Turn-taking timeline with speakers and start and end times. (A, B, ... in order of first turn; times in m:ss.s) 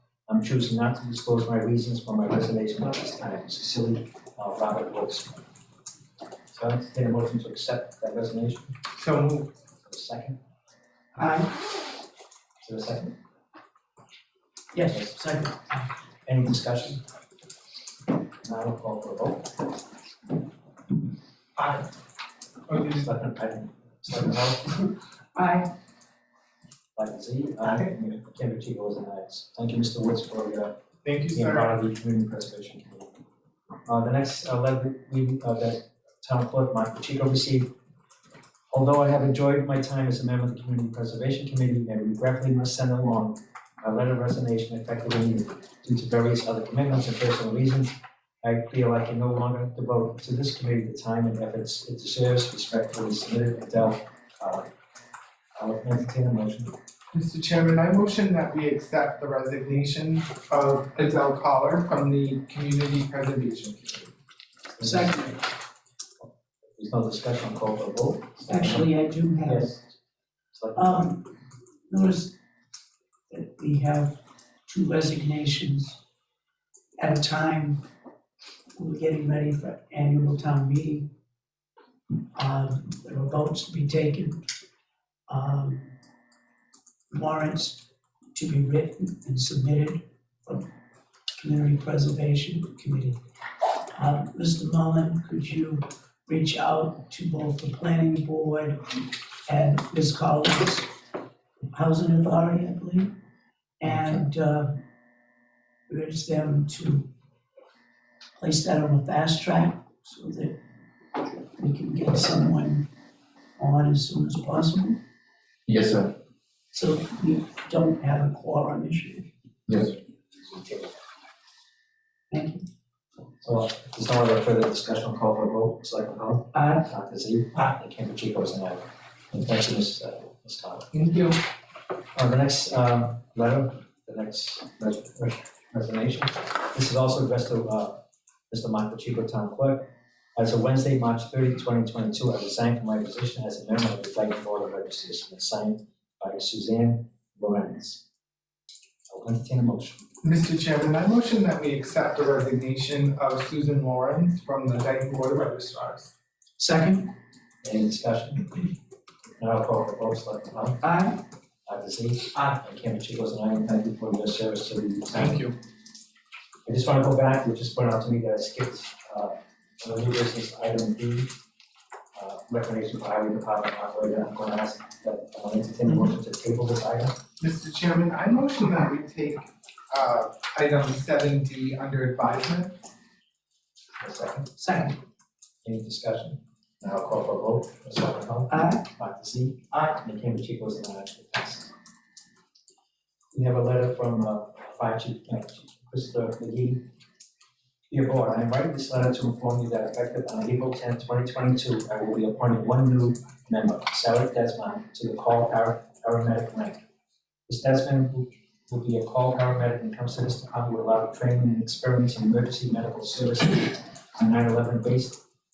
0:00.3-0:05.4 A
0:06.5-0:08.7 A
0:09.0-0:09.5 B
0:09.8-0:10.4 A
0:11.2-0:11.6 C
0:12.6-0:13.2 A
0:14.7-0:15.8 C
0:16.3-0:17.0 A
0:18.4-0:19.6 A
0:21.6-0:21.9 B
0:22.7-0:23.1 B
0:23.0-0:24.8 A
0:25.4-0:25.7 C
0:27.0-0:30.7 A
0:31.0-0:31.8 B
0:31.3-0:33.1 A
0:33.9-0:37.7 A
0:38.7-0:54.7 A
0:55.6-0:56.7 A
0:57.1-1:04.1 B
1:04.7-1:05.4 A
1:04.8-1:05.4 C
1:06.8-1:08.9 A
1:08.5-1:09.8 C
1:09.4-1:09.8 A
1:10.5-1:11.0 A
1:10.8-1:11.3 C
1:11.9-1:12.4 C
1:13.3-1:16.0 C
1:17.0-1:17.8 C
1:18.8-1:21.1 C
1:22.3-1:24.4 C
1:25.3-1:26.0 C
1:27.1-1:30.7 C
1:31.4-1:33.2 C
1:34.0-1:40.9 C
1:41.7-1:43.1 C
1:43.8-1:44.8 C
1:45.9-1:47.1 C
1:48.4-1:50.6 C
1:51.2-1:52.9 C
1:53.6-1:55.0 C
1:56.7-1:59.3 C
2:00.5-2:00.9 A
2:02.3-2:02.6 C
2:03.4-2:10.9 A
2:06.5-2:06.9 C
2:10.9-2:11.4 B
2:12.2-2:18.0 A
2:18.5-2:28.0 A
2:29.1-2:30.0 A
2:30.2-2:36.1 B
2:36.6-2:37.1 C
2:37.6-2:38.6 A
2:39.4-2:40.8 A
2:40.8-2:41.2 C
2:41.7-2:45.5 A
2:45.2-2:45.5 B
2:46.7-2:51.3 A
2:52.2-2:57.2 A
2:57.4-3:02.8 B
3:04.0-3:04.5 A
3:04.6-3:05.0 C
3:05.6-3:11.7 A
3:08.5-3:08.8 C
3:13.3-3:16.8 A
3:17.9-3:26.8 A
3:27.5-3:35.2 A